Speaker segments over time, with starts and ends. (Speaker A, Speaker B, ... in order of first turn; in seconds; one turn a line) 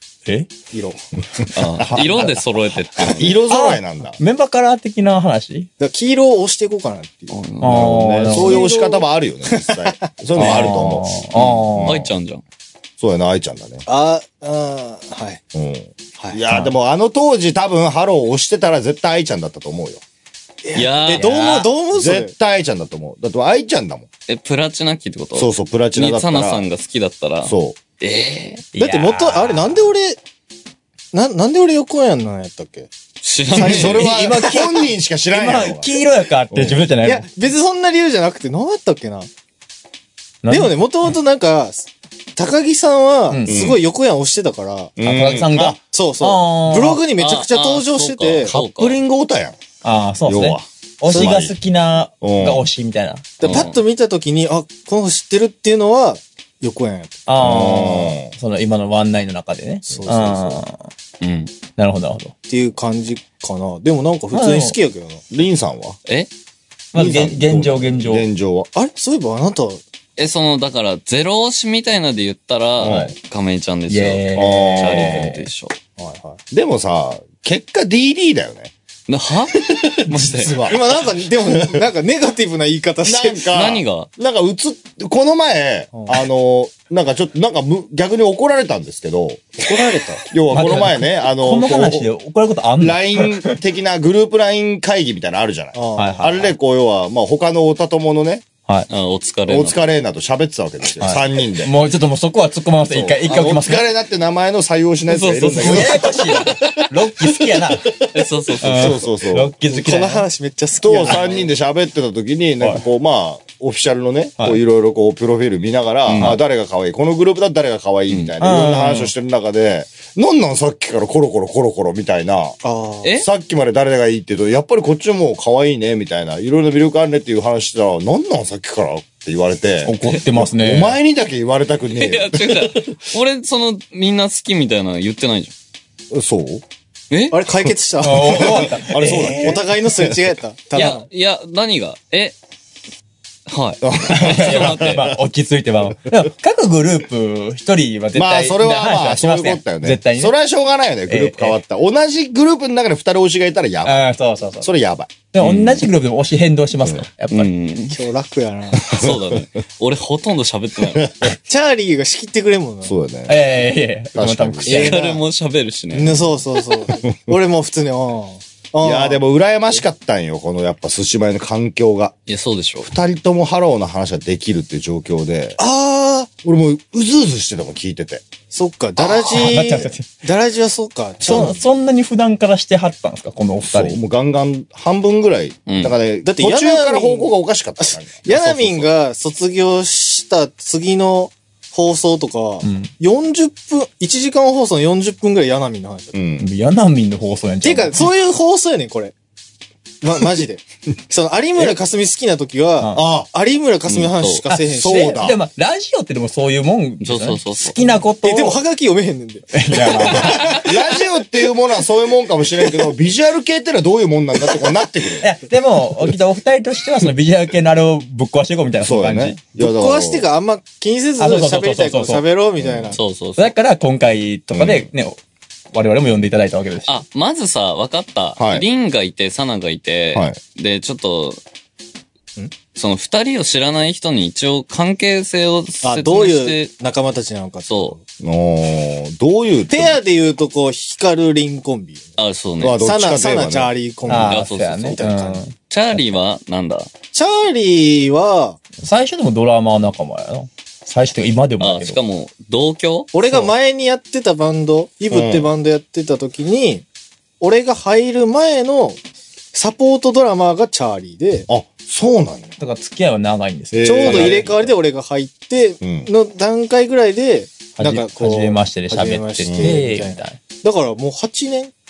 Speaker A: 0.2-0.5
Speaker B: 0.7-2.3
Speaker C: 1.5-3.4
Speaker A: 1.8-2.4
Speaker B: 3.0-4.2
Speaker A: 3.5-5.7
Speaker D: 5.8-7.4
Speaker C: 7.3-8.0
Speaker A: 7.6-8.7
Speaker B: 7.6-12.1
Speaker D: 8.2-10.1
Speaker A: 10.3-12.1
Speaker C: 10.4-10.7
Speaker C: 11.8-12.4
Speaker B: 13.0-13.8
Speaker D: 13.8-15.4
Speaker B: 15.5-20.0
Speaker D: 20.6-22.3
Speaker C: 20.7-21.3
Speaker A: 21.1-21.7
Speaker B: 21.9-24.1
Speaker C: 24.3-28.6
Speaker B: 25.3-26.6
Speaker B: 27.4-27.8
Speaker A: 28.7-29.9
Speaker D: 28.8-30.2
Speaker D: 31.1-32.9
Speaker C: 33.2-34.1
Speaker D: 33.5-34.0
Speaker B: 33.5-36.0
Speaker A: 33.9-37.2
Speaker B: 36.5-36.8
Speaker D: 37.0-39.3
Speaker A: 40.4-40.8
Speaker D: 40.5-44.9
Speaker A: 43.3-43.6
Speaker B: 43.5-43.8
Speaker B: 45.0-45.8
Speaker A: 45.0-47.0
Speaker D: 45.9-48.5
Speaker C: 47.2-49.0
Speaker B: 48.5-49.6
Speaker A: 49.8-53.6
Speaker B: 50.2-51.5
Speaker D: 51.1-51.4
Speaker B: 52.2-52.6
Speaker D: 53.4-57.8
Speaker C: 53.4-53.8
Speaker A: 57.3-60.9
Speaker B: 57.4-58.3
Speaker D: 59.9-60.6
Speaker C: 61.2-61.5
Speaker A: 61.8-62.3
Speaker D: 62.5-65.2
Speaker A: 64.3-64.8
Speaker B: 65.3-66.0
Speaker A: 66.9-68.2
Speaker B: 66.9-68.7
Speaker D: 68.7-69.8
Speaker C: 70.2-75.8
Speaker B: 72.8-73.1
Speaker A: 73.9-75.5
Speaker B: 74.3-75.3
Speaker D: 76.0-76.4
Speaker B: 76.5-78.7
Speaker C: 79.1-80.8
Speaker B: 80.1-80.8
Speaker D: 80.6-83.5
Speaker B: 81.5-81.8
Speaker B: 83.0-89.5
Speaker C: 83.5-84.1
Speaker D: 85.9-86.2
Speaker D: 89.6-90.2
Speaker B: 90.2-92.1
Speaker A: 90.5-93.6
Speaker B: 92.8-98.4
Speaker D: 95.7-96.3
Speaker A: 96.0-96.5
Speaker C: 98.9-99.8
Speaker B: 99.5-101.7
Speaker A: 101.0-103.8
Speaker B: 102.9-109.5
Speaker C: 105.1-106.2
Speaker A: 105.6-107.9
Speaker C: 108.0-109.0
Speaker A: 108.6-110.2
Speaker D: 109.7-111.5
Speaker B: 110.8-122.6
Speaker A: 111.0-111.3
Speaker C: 116.1-116.3
Speaker A: 118.4-119.1
Speaker D: 122.6-123.1
Speaker B: 123.2-133.0
Speaker A: 129.8-131.0
Speaker C: 131.9-135.5
Speaker B: 136.1-136.6
Speaker C: 137.1-137.4
Speaker D: 137.3-138.7
Speaker A: 138.0-139.6
Speaker B: 138.2-140.3
Speaker D: 139.2-141.1
Speaker C: 140.7-142.3
Speaker C: 143.5-145.1
Speaker B: 143.8-145.2
Speaker A: 144.1-150.3
Speaker B: 148.1-154.1
Speaker A: 151.1-151.6
Speaker A: 153.8-154.7
Speaker B: 154.6-155.1
Speaker A: 155.3-157.5
Speaker C: 155.4-155.9
Speaker C: 157.3-158.0
Speaker D: 157.9-158.8
Speaker C: 158.8-161.1
Speaker B: 158.8-159.4
Speaker B: 160.9-161.3
Speaker D: 161.4-162.9
Speaker B: 162.9-163.4
Speaker A: 163.3-165.1
Speaker B: 164.1-165.0
Speaker C: 164.6-166.4
Speaker D: 164.7-165.2
Speaker D: 165.9-169.2
Speaker B: 167.0-167.3
Speaker B: 168.8-172.1
Speaker C: 172.3-172.9
Speaker B: 172.8-175.6
Speaker D: 175.6-176.3
Speaker B: 176.4-178.2
Speaker D: 178.5-181.6
Speaker B: 179.0-179.6
Speaker A: 179.3-180.1
Speaker A: 181.2-184.0
Speaker B: 183.6-188.9
Speaker C: 185.7-185.9
Speaker D: 186.2-196.1
Speaker A: 192.6-192.9
Speaker B: 196.1-196.5
Speaker A: 196.4-198.1
Speaker D: 197.6-199.1
Speaker D: 200.0-205.2
Speaker B: 202.9-203.3
Speaker C: 203.9-204.4
Speaker B: 204.7-205.4
Speaker A: 205.1-208.6
Speaker C: 207.0-207.9
Speaker D: 208.2-210.7
Speaker A: 209.5-210.7
Speaker B: 210.2-215.3
Speaker A: 215.2-219.4
Speaker B: 218.8-220.3
Speaker D: 219.6-223.0
Speaker A: 221.2-222.2
Speaker B: 222.6-222.9
Speaker C: 222.9-223.5
Speaker A: 223.4-225.2
Speaker B: 224.5-224.9
Speaker A: 225.7-226.9
Speaker C: 226.9-231.4
Speaker B: 228.4-228.6
Speaker C: 232.7-236.7
Speaker D: 235.8-238.0
Speaker C: 237.7-237.9
Speaker B: 238.2-240.0
Speaker D: 239.7-242.1
Speaker C: 242.2-242.8
Speaker B: 242.6-243.7
Speaker D: 242.8-245.4
Speaker A: 244.1-246.1
Speaker C: 244.1-245.0
Speaker C: 245.7-246.9
Speaker D: 247.1-248.6
Speaker A: 248.8-252.0
Speaker C: 251.6-253.1
Speaker D: 253.1-256.8
Speaker B: 255.1-255.5
Speaker D: 257.4-259.0
Speaker D: 259.5-261.5
Speaker B: 261.5-262.5
Speaker A: 262.6-264.6
Speaker B: 263.7-264.7
Speaker D: 263.8-271.7
Speaker B: 265.8-266.1
Speaker A: 267.8-270.4
Speaker B: 269.4-269.8